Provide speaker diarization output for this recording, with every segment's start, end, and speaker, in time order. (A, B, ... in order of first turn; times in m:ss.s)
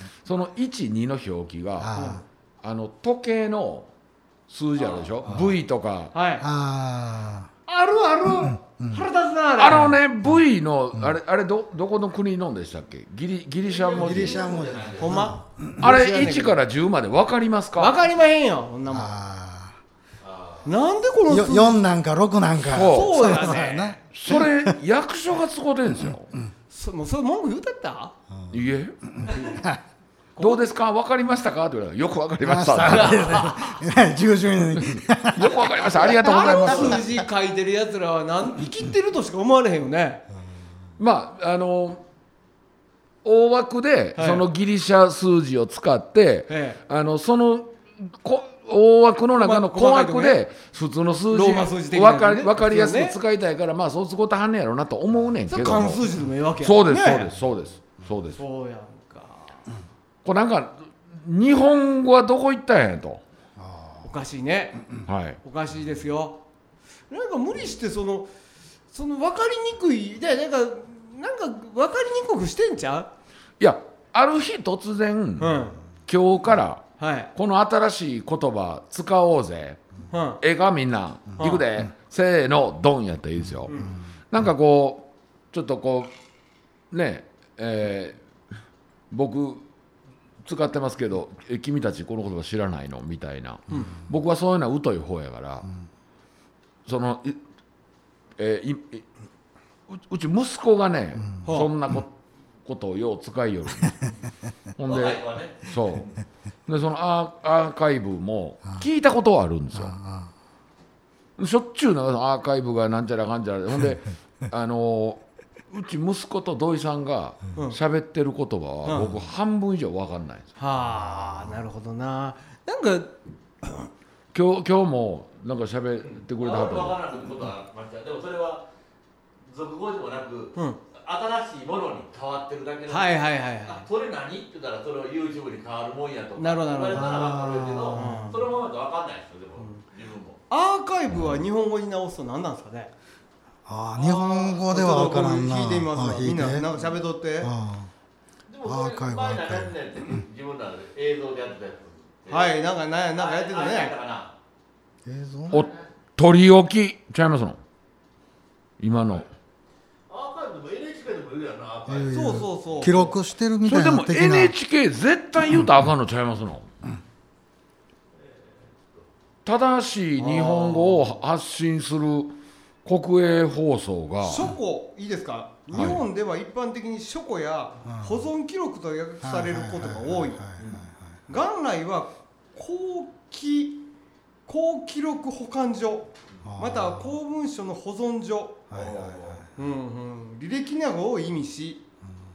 0:00.2-0:03.9 A
0:01.8-0:02.2 B
0:02.0-0:02.2 C
0:04.5-0:06.1 A
0:04.8-0:05.1 D
0:06.1-0:06.4 C
0:06.4-0:07.5 B
0:07.7-0:09.9 C
0:08.6-0:09.0 B
0:09.6-0:14.6 A
0:13.6-0:15.3 D
0:14.0-0:15.8 B
0:15.0-0:16.6 C
0:15.8-0:18.0 A
0:17.8-0:19.1 C
0:18.9-0:19.8 B
0:20.2-0:20.7 D
0:20.6-0:21.8 C
0:21.3-0:24.7 B
0:22.6-0:23.6 A
0:22.7-0:24.0 C
0:24.1-0:26.3 A
0:26.7-0:28.1 C
0:28.5-0:28.9 A
0:29.2-0:29.8 B
0:30.4-0:30.7 C
0:30.4-0:33.5 A
0:32.4-0:35.9 B
0:32.9-0:33.5 C
0:34.9-0:37.1 A
0:36.0-0:40.2 C
0:36.1-0:37.0 D
0:41.0-0:42.0 A
0:43.2-0:56.0 A
0:44.2-0:44.4 C
0:46.5-0:46.8 C
0:49.3-0:50.4 C
0:51.3-0:53.2 C
0:55.5-0:57.3 C
0:56.6-0:58.4 A
0:58.4-0:59.7 C
1:00.2-1:03.2 A
1:03.6-1:04.1 B
1:04.0-1:04.8 C
1:05.0-1:05.4 A
1:05.4-1:06.4 C
1:07.1-1:08.3 C
1:08.9-1:13.1 C
1:13.6-1:19.8 A
1:15.4-1:15.8 C
1:17.0-1:17.3 C
1:20.1-1:20.4 C
1:20.4-1:26.1 A
1:21.4-1:21.6 C
1:26.9-1:28.2 A
1:29.1-1:29.6 A
1:30.4-1:35.7 A
1:36.8-1:37.4 A
1:38.4-1:39.1 A
1:39.9-1:42.1 A
1:41.4-1:41.7 C
1:42.6-1:44.1 A
1:44.8-1:46.1 A
1:44.8-1:46.1 D
1:46.7-1:50.0 A
1:49.9-1:50.3 B
1:51.4-2:00.5 A
1:58.8-1:59.2 C
2:00.6-2:03.7 C
2:04.3-2:07.0 A
2:06.0-2:08.6 D
2:09.4-2:20.4 D
2:10.5-2:10.8 C
2:12.9-2:13.8 C
2:16.4-2:17.2 C
2:16.9-2:18.3 B
2:17.9-2:18.5 C
2:20.5-2:22.9 C
2:23.6-2:26.8 B
2:24.0-2:24.6 D
2:24.7-2:27.5 C
2:27.4-2:27.9 B
2:28.5-2:32.6 D
2:28.6-2:30.2 B
2:32.3-2:33.9 C
2:33.2-2:34.3 D
2:35.0-2:35.6 B
2:35.5-2:37.6 A
2:38.8-2:39.3 A
2:40.1-2:42.5 D
2:41.9-2:44.5 B
2:42.1-2:43.2 C
2:43.6-2:46.7 A
2:48.1-2:49.1 D
2:49.4-2:54.5 A
2:50.2-2:51.1 C
2:54.2-3:00.4 C
2:55.7-2:56.0 A
2:57.8-2:58.2 B
2:59.2-3:01.1 B
3:01.3-3:03.9 C
3:04.5-3:08.6 C
3:06.4-3:07.1 B
3:08.7-3:09.5 B
3:08.7-3:09.4 D
3:09.6-3:11.8 C